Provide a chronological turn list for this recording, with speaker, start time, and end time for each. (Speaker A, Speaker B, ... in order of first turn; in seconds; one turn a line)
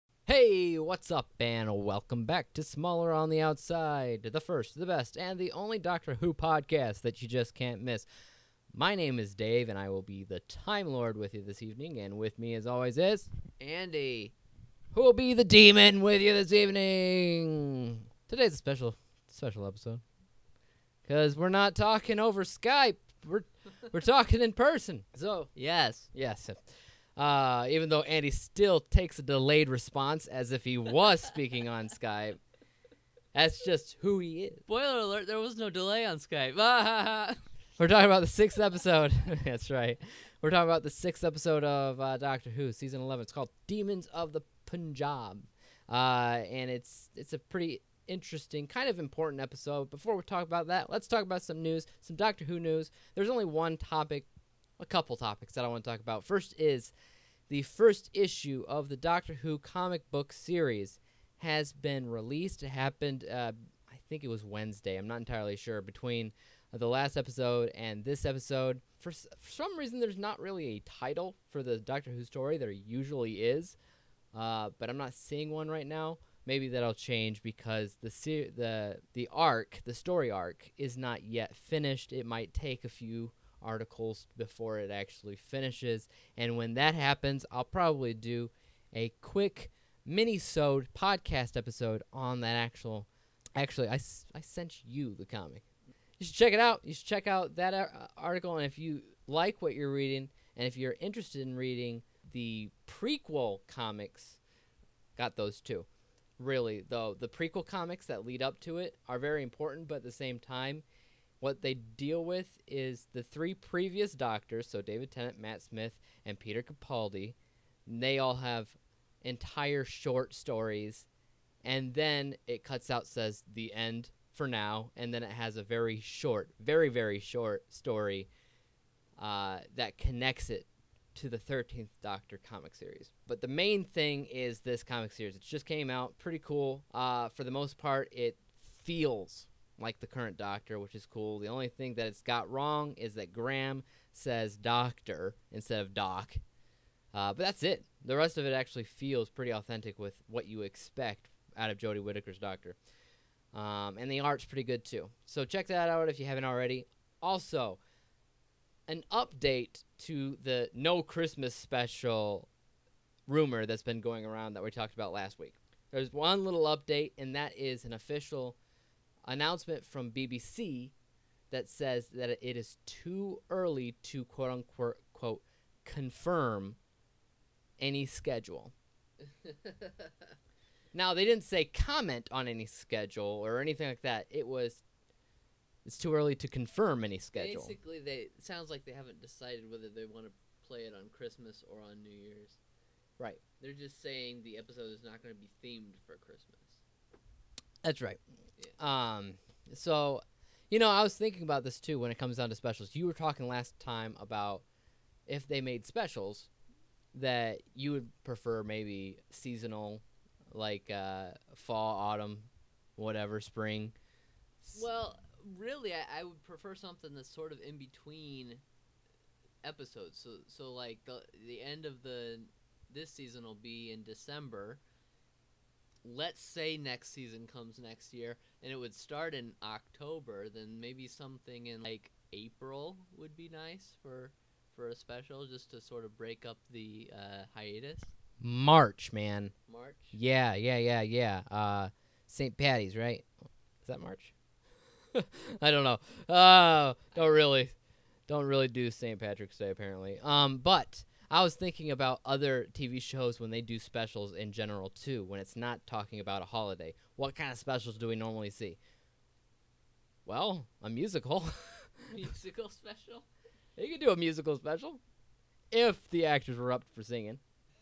Speaker A: 0.3-8.1
Speaker A: 8.7-13.3
Speaker B: 13.6-14.3
Speaker A: 14.9-20.0
Speaker A: 21.0-25.5
Speaker B: 25.5-26.1
Speaker A: 26.1-32.4
Speaker A: 33.3-34.6
Speaker B: 34.7-37.4
Speaker A: 37.8-54.3
Speaker A: 54.8-56.9
Speaker A: 57.5-73.8
Speaker A: 74.3-95.6
Speaker A: 96.2-104.4
Speaker A: 105.2-105.9
Speaker A: 106.4-110.8
Speaker A: 111.4-121.1
Speaker A: 121.6-128.3
Speaker A: 129.2-146.4
Speaker A: 147.1-152.8
Speaker A: 153.5-157.8
Speaker A: 158.9-162.5
Speaker A: 163.3-168.6
Speaker A: 169.2-170.9
Speaker A: 171.5-176.8
Speaker A: 177.8-178.7
Speaker B: 179.2-180.3
Speaker A: 180.9-184.8
Speaker A: 185.8-187.7
Speaker B: 187.3-192.6
Speaker B: 193.6-196.8
Speaker A: 197.8-198.2
Speaker A: 198.8-204.6
Speaker A: 205.3-206.5
Speaker A: 207.1-213.9
Speaker B: 214.7-218.6
Speaker B: 219.6-224.8
Speaker B: 226.0-238.1
Speaker A: 238.4-239.5
Speaker B: 239.7-240.2
Speaker A: 240.1-243.3
Speaker A: 243.8-244.3
Speaker A: 245.1-247.7
Speaker A: 248.3-258.8
Speaker A: 260.2-262.1
Speaker B: 262.1-263.2
Speaker A: 263.8-265.0
Speaker A: 265.7-267.4